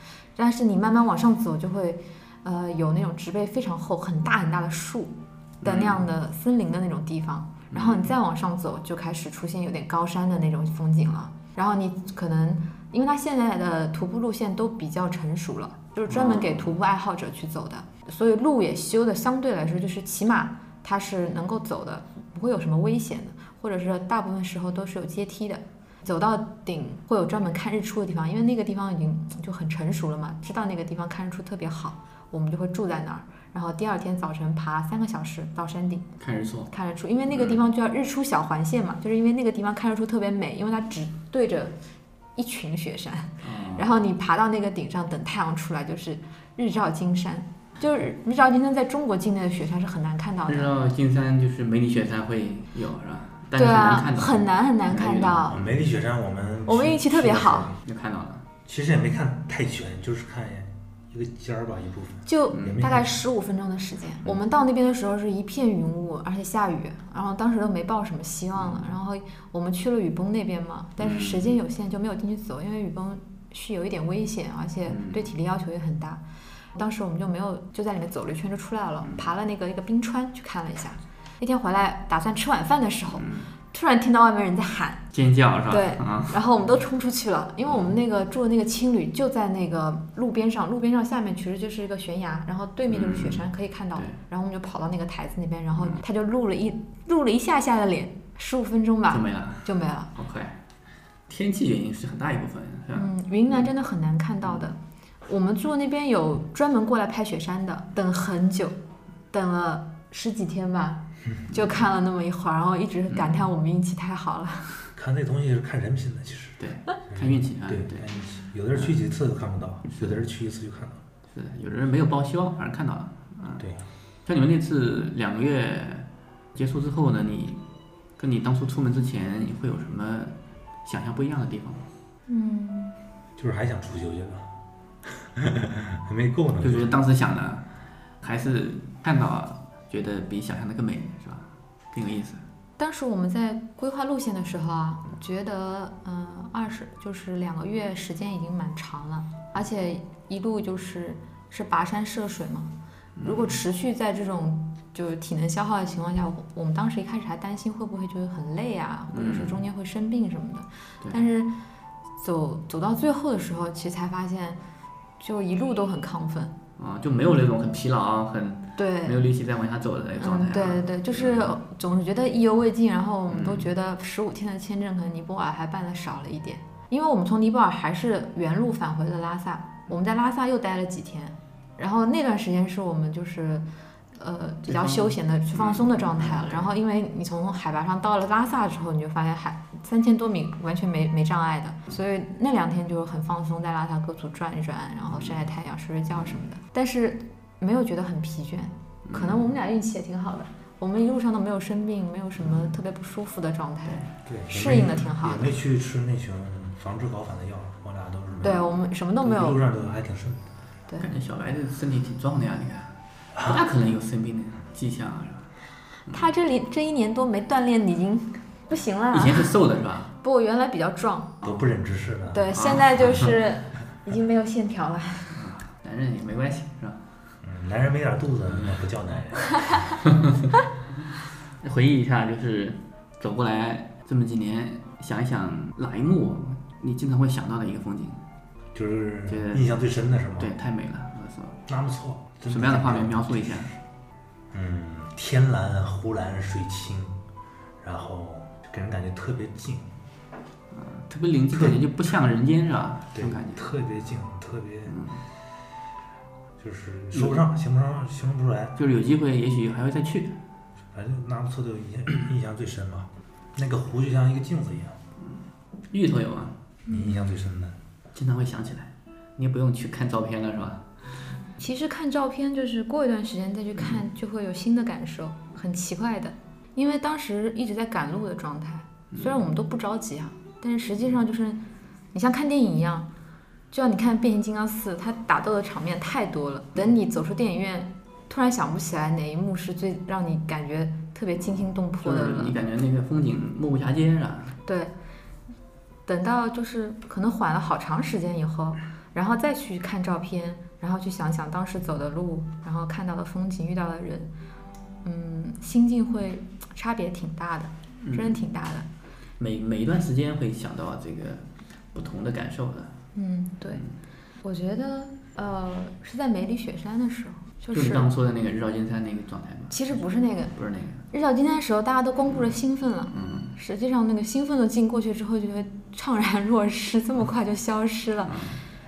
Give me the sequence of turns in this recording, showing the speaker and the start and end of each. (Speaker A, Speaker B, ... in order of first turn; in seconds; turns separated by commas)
Speaker A: 0.3-36.1, Speaker B: 5.6-6.0, Speaker B: 7.7-8.1, Speaker B: 16.1-16.7, Speaker B: 36.2-36.7, Speaker A: 36.7-41.7, Speaker B: 37.3-37.6, Speaker A: 42.4-50.8, Speaker B: 43.4-43.9, Speaker B: 50.5-55.8, Speaker A: 53.5-55.5, Speaker C: 55.5-57.8, Speaker A: 56.6-57.7, Speaker B: 57.8-58.4, Speaker C: 58.6-63.1, Speaker A: 62.2-76.2, Speaker B: 62.5-62.8, Speaker B: 68.5-68.9, Speaker B: 71.0-71.6, Speaker B: 74.9-75.3, Speaker A: 76.7-85.0, Speaker B: 79.0-79.3, Speaker B: 83.2-83.5, Speaker B: 85.1-86.4, Speaker A: 85.7-100.1, Speaker B: 87.7-88.0, Speaker B: 92.9-94.2, Speaker B: 95.8-96.0, Speaker B: 99.1-100.6, Speaker B: 101.3-103.7, Speaker A: 103.0-108.8, Speaker A: 109.3-114.8, Speaker C: 111.2-111.6, Speaker B: 113.1-113.5, Speaker C: 114.9-121.0, Speaker B: 116.6-118.1, Speaker B: 119.9-120.2, Speaker B: 121.3-123.6, Speaker B: 124.2-127.6, Speaker B: 128.2-131.8, Speaker A: 132.3-133.0, Speaker C: 133.4-134.5, Speaker C: 135.2-136.9, Speaker B: 136.6-137.6, Speaker B: 138.2-142.4, Speaker A: 142.8-152.7, Speaker B: 153.2-153.6, Speaker A: 153.2-161.5, Speaker B: 159.1-159.6, Speaker A: 162.2-164.6, Speaker A: 165.2-166.5, Speaker B: 166.8-171.5, Speaker A: 168.8-169.2, Speaker A: 170.2-183.7, Speaker B: 173.3-173.7, Speaker A: 184.2-205.5, Speaker B: 184.7-186.7, Speaker B: 195.1-195.4, Speaker B: 196.1-196.4, Speaker B: 199.1-199.5, Speaker B: 202.4-202.8, Speaker B: 203.8-204.1, Speaker C: 204.2-208.7, Speaker A: 208.4-209.6, Speaker C: 209.2-210.4, Speaker B: 211.0-212.9, Speaker C: 213.3-213.6, Speaker B: 213.4-215.5, Speaker A: 216.1-219.5, Speaker B: 219.1-220.1, Speaker A: 220.2-221.3, Speaker C: 221.4-222.6, Speaker A: 222.3-225.4, Speaker B: 222.5-223.3, Speaker B: 225.3-227.2, Speaker C: 227.4-229.9, Speaker B: 228.5-228.9, Speaker B: 230.1-230.5, Speaker B: 231.6-238.2, Speaker C: 238.7-240.5, Speaker B: 239.3-239.8, Speaker B: 240.4-241.6, Speaker C: 241.7-243.7, Speaker B: 242.5-243.7, Speaker C: 244.5-247.2, Speaker C: 247.8-249.9, Speaker B: 250.7-253.7, Speaker C: 251.5-251.9, Speaker C: 253.1-255.0, Speaker B: 254.9-255.2, Speaker C: 256.6-258.8, Speaker B: 257.1-257.4, Speaker B: 258.8-260.4, Speaker C: 260.9-265.0, Speaker B: 265.2-266.6, Speaker C: 266.9-267.8, Speaker B: 268.1-270.9, Speaker A: 271.6-281.6, Speaker B: 279.1-279.4, Speaker A: 282.1-283.1, Speaker A: 283.7-292.6, Speaker B: 292.0-294.6, Speaker A: 294.6-294.9, Speaker A: 296.1-304.3, Speaker A: 305.0-308.9, Speaker B: 308.0-308.4, Speaker B: 309.4-313.0, Speaker A: 313.1-313.8, Speaker A: 314.4-318.1, Speaker B: 317.7-320.0, Speaker A: 319.7-320.5, Speaker B: 320.5-321.0, Speaker A: 321.1-328.3, Speaker B: 323.1-323.5, Speaker B: 328.2-328.6